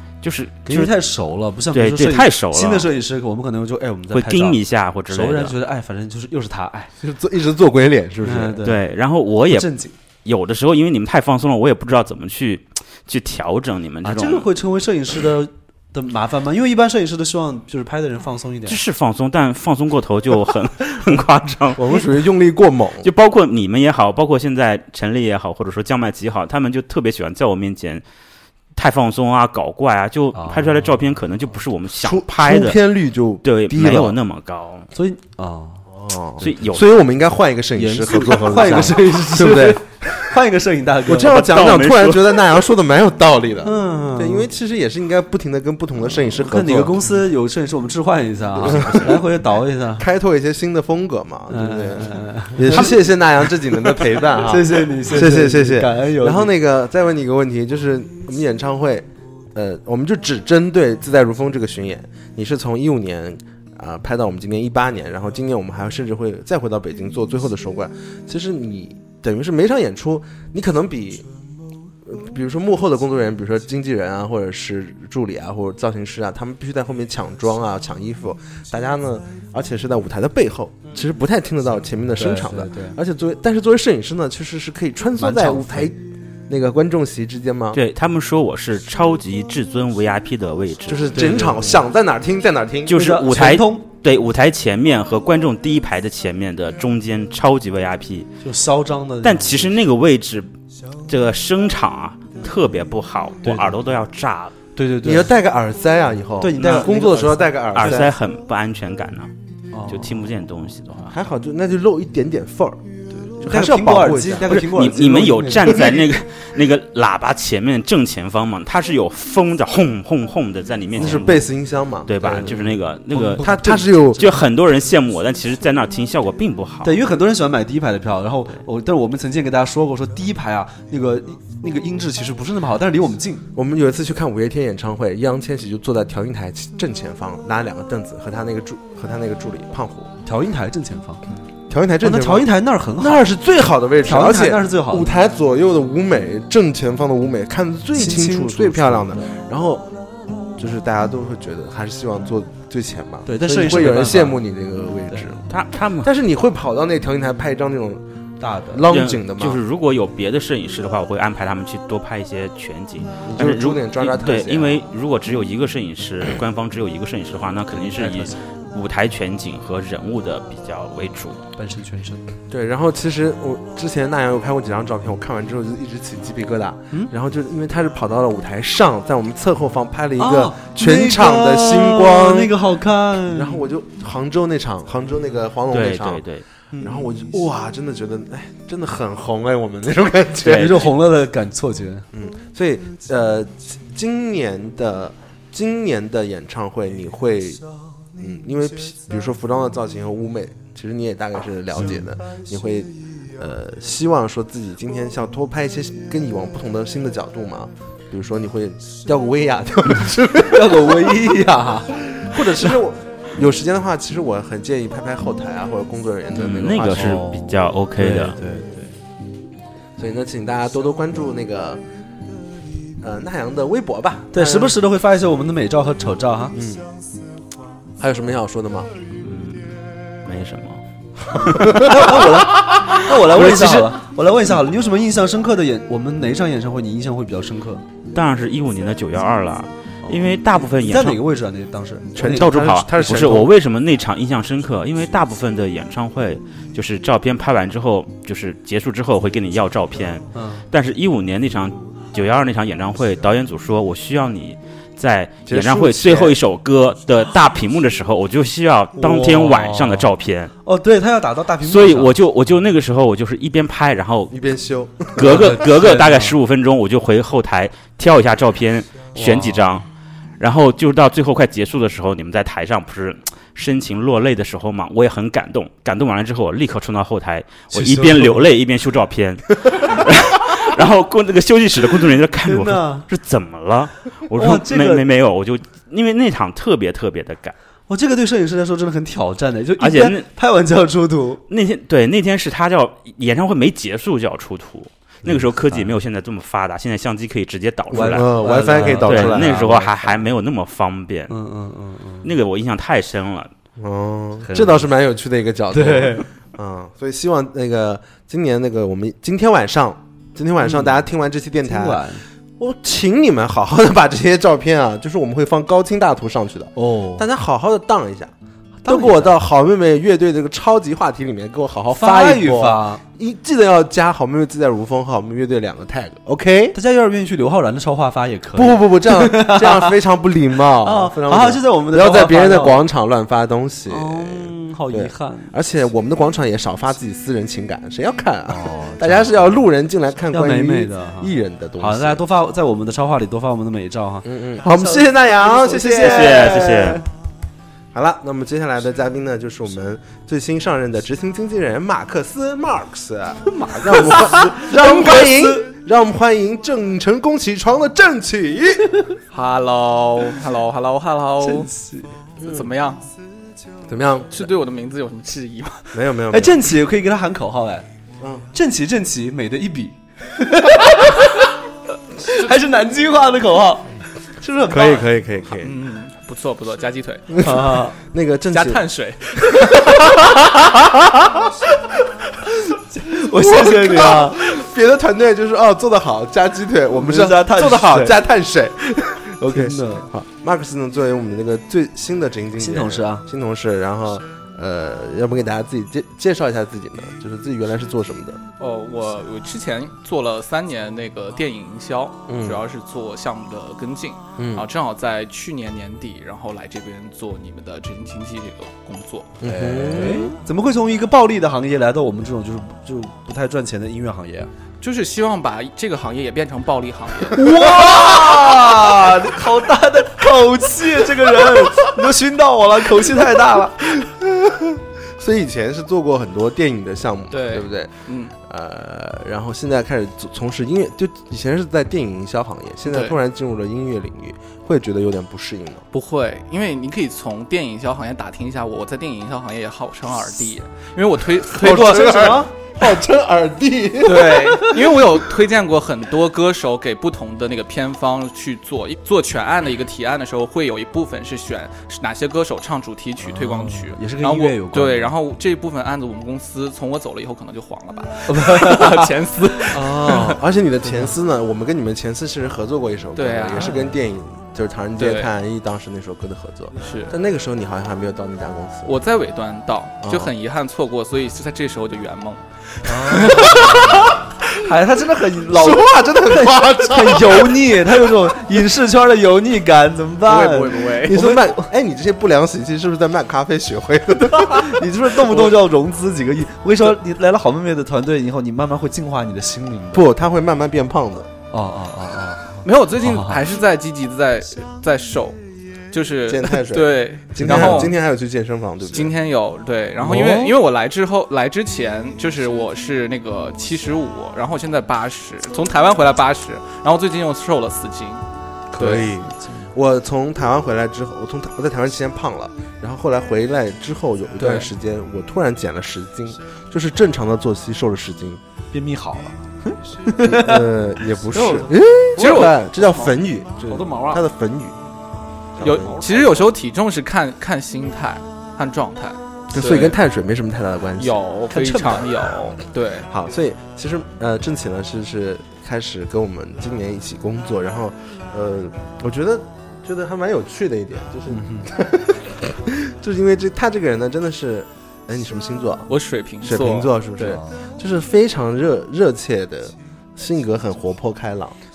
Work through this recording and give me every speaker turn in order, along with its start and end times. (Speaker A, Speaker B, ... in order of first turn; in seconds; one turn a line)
Speaker A: 0.2-1.0
Speaker B: 0.7-6.9
Speaker A: 1.7-2.9
Speaker A: 4.1-5.6
Speaker C: 7.0-8.6
Speaker B: 8.2-8.8
Speaker A: 8.6-14.5
Speaker B: 9.5-9.9
Speaker B: 14.0-18.8
Speaker A: 18.7-22.1
Speaker C: 21.8-23.1
Speaker A: 23.0-28.0
Speaker A: 28.8-32.8
Speaker B: 30.4-30.9
Speaker C: 32.0-34.2
Speaker A: 33.4-34.9
Speaker B: 34.9-35.8
Speaker C: 35.9-40.4
Speaker A: 36.4-36.9
Speaker B: 37.8-41.4
Speaker C: 41.1-47.0
Speaker A: 41.2-42.5
Speaker B: 43.6-44.5
Speaker B: 46.4-50.0
Speaker C: 48.6-49.2
Speaker C: 50.0-71.3
Speaker B: 51.5-53.0
Speaker B: 54.4-56.5
Speaker C: 72.0-86.0
Speaker B: 82.2-83.0
Speaker B: 85.2-85.9
Speaker C: 86.5-87.8
Speaker A: 87.7-91.2
Speaker C: 90.9-93.0
Speaker B: 91.1-91.8
Speaker A: 92.9-98.3
Speaker B: 92.9-93.9
Speaker B: 98.4-99.6
Speaker A: 99.2-100.5
Speaker A: 101.1-104.6
Speaker B: 103.4-103.8
Speaker B: 104.8-105.3
Speaker C: 105.0-108.1
Speaker B: 106.4-108.1
Speaker A: 107.8-109.3
Speaker B: 109.7-110.2
Speaker A: 109.9-111.2
Speaker C: 111.1-112.8
Speaker B: 113.2-115.9
Speaker C: 113.4-114.6
Speaker A: 114.5-121.5
Speaker C: 121.0-122.6
Speaker A: 122.1-127.0
Speaker B: 123.2-123.7
Speaker C: 123.3-124.2
Speaker B: 126.8-133.4
Speaker C: 133.6-140.1
Speaker B: 140.2-141.2
Speaker C: 141.7-149.9
Speaker B: 142.0-143.3
Speaker B: 144.0-145.1
Speaker B: 148.0-149.2
Speaker C: 150.6-155.4
Speaker B: 153.3-154.4
Speaker B: 155.1-155.4
Speaker A: 155.5-156.1
Speaker C: 156.0-158.0
Speaker B: 158.4-158.8
Speaker C: 158.7-159.6
Speaker A: 158.9-171.4
Speaker C: 163.3-164.8
Speaker B: 167.7-168.4
Speaker B: 171.6-172.2
Speaker C: 172.5-182.5
Speaker B: 180.2-183.6
Speaker C: 183.3-186.2
Speaker A: 185.7-186.4
Speaker B: 186.7-187.1
Speaker C: 186.8-190.9
Speaker B: 190.4-192.1
Speaker C: 192.1-197.6
Speaker C: 198.2-211.4
Speaker B: 210.5-211.9
Speaker C: 212.2-217.2
Speaker A: 216.3-218.4
Speaker B: 216.8-218.9
Speaker C: 220.0-221.8
Speaker C: 223.0-224.8
Speaker B: 224.3-226.6
Speaker C: 226.5-226.9
Speaker C: 228.0-228.9
Speaker A: 229.2-230.8
Speaker A: 231.5-231.8
Speaker B: 231.7-237.8
Speaker C: 231.7-232.3
Speaker A: 232.7-233.8
Speaker C: 233.3-233.9
Speaker A: 238.1-241.2
Speaker B: 240.8-242.5
Speaker C: 242.2-243.5
Speaker A: 242.3-260.5
Speaker B: 250.3-250.7
Speaker C: 255.5-256.4
Speaker B: 259.0-260.1
Speaker B: 260.6-262.2
Speaker A: 261.6-264.4
Speaker C: 264.3-265.5
Speaker A: 265.2-269.9
Speaker B: 265.2-266.4
Speaker B: 269.1-269.7
Speaker A: 270.4-287.5
Speaker B: 277.7-278.4
Speaker B: 282.4-283.1
Speaker B: 284.4-285.1
Speaker B: 287.9-291.4
Speaker A: 289.8-290.3
Speaker A: 291.5-301.4
Speaker B: 295.3-296.0
Speaker C: 297.9-299.8
Speaker B: 297.9-300.0
Speaker B: 301.3-302.3
Speaker A: 302.2-303.5
Speaker C: 303.8-312.1
Speaker B: 304.5-304.9
Speaker B: 305.7-306.2
Speaker B: 310.6-310.9
Speaker B: 311.6-312.2
Speaker C: 312.6-318.3
Speaker B: 316.8-317.3
Speaker B: 318.9-319.3
Speaker C: 318.9-326.8
Speaker B: 321.9-323.0
Speaker B: 326.7-329.9
Speaker C: 328.6-342.2
Speaker B: 330.8-332.9
Speaker B: 333.9-335.6
Speaker B: 338.5-339.5
Speaker B: 340.3-347.0
Speaker C: 344.2-346.9
Speaker A: 346.0-347.0
Speaker C: 347.9-358.9
Speaker B: 353.5-355.6
Speaker D: 359.3-361.7
Speaker B: 361.4-362.1
Speaker C: 362.4-362.7
Speaker D: 362.4-363.0
Speaker C: 363.9-364.5
Speaker D: 364.3-365.9
Speaker C: 365.9-366.6
Speaker B: 366.3-367.9
Speaker C: 368.2-368.5
Speaker B: 368.5-371.5
Speaker B: 372.2-373.9
Speaker B: 374.4-375.1
Speaker C: 374.7-375.8
Speaker D: 375.6-377.4
Speaker C: 377.4-378.8
Speaker B: 377.4-378.0
Speaker D: 378.5-379.7
Speaker C: 379.5-380.0
Speaker B: 382.9-384.4
Speaker C: 383.4-398.4
Speaker B: 386.9-388.2
Speaker B: 389.5-390.1
Speaker B: 392.6-393.2
Speaker D: 398.6-409.3
Speaker C: 402.3-402.6
Speaker C: 404.4-404.6
Speaker C: 409.4-410.4
Speaker B: 409.4-414.5
Speaker D: 414.8-417.4
Speaker B: 417.3-424.0
Speaker C: 424.2-427.9
Speaker D: 427.3-428.3
Speaker C: 428.5-435.9
Speaker D: 432.9-433.2
Speaker D: 435.9-442.1
Speaker C: 441.5-444.6
Speaker B: 441.6-442.5
Speaker D: 444.0-460.2
Speaker B: 444.2-444.6
Speaker B: 453.2-455.1
Speaker B: 458.3-459.1
Speaker C: 459.7-469.0
Speaker D: 463.1-463.7
Speaker B: 463.6-463.9
Speaker D: 465.0-465.3
Speaker D: 466.8-467.1
Speaker D: 468.9-474.1
Speaker C: 470.0-470.3
Speaker B: 472.9-474.1
Speaker C: 473.5-473.7
Speaker B: 474.6-481.6
Speaker C: 475.5-477.7
Speaker D: 480.2-481.1
Speaker C: 481.1-485.5
Speaker B: 484.4-490.1
Speaker C: 489.9-491.3
Speaker B: 491.5-493.4
Speaker D: 492.6-495.4
Speaker D: 495.9-497.9
Speaker C: 496.3-499.1
Speaker B: 497.4-497.9
Speaker D: 498.9-508.2
Speaker B: 500.0-500.5
Speaker C: 500.0-500.5
Speaker C: 508.7-518.4
Speaker D: 508.8-509.1
Speaker B: 509.4-509.7
Speaker D: 514.4-514.7
Speaker B: 518.7-520.7
Speaker C: 520.2-524.8
Speaker B: 521.3-523.1
Speaker D: 522.2-522.5
Speaker B: 523.7-524.2
Speaker C: 525.6-526.0
Speaker D: 525.6-530.0
Speaker B: 525.8-526.5
Speaker C: 529.5-531.2
Speaker D: 531.0-533.1
Speaker B: 531.5-532.2
Speaker C: 533.1-551.6
Speaker B: 541.3-541.7
Speaker D: 545.9-546.9
Speaker B: 547.2-547.6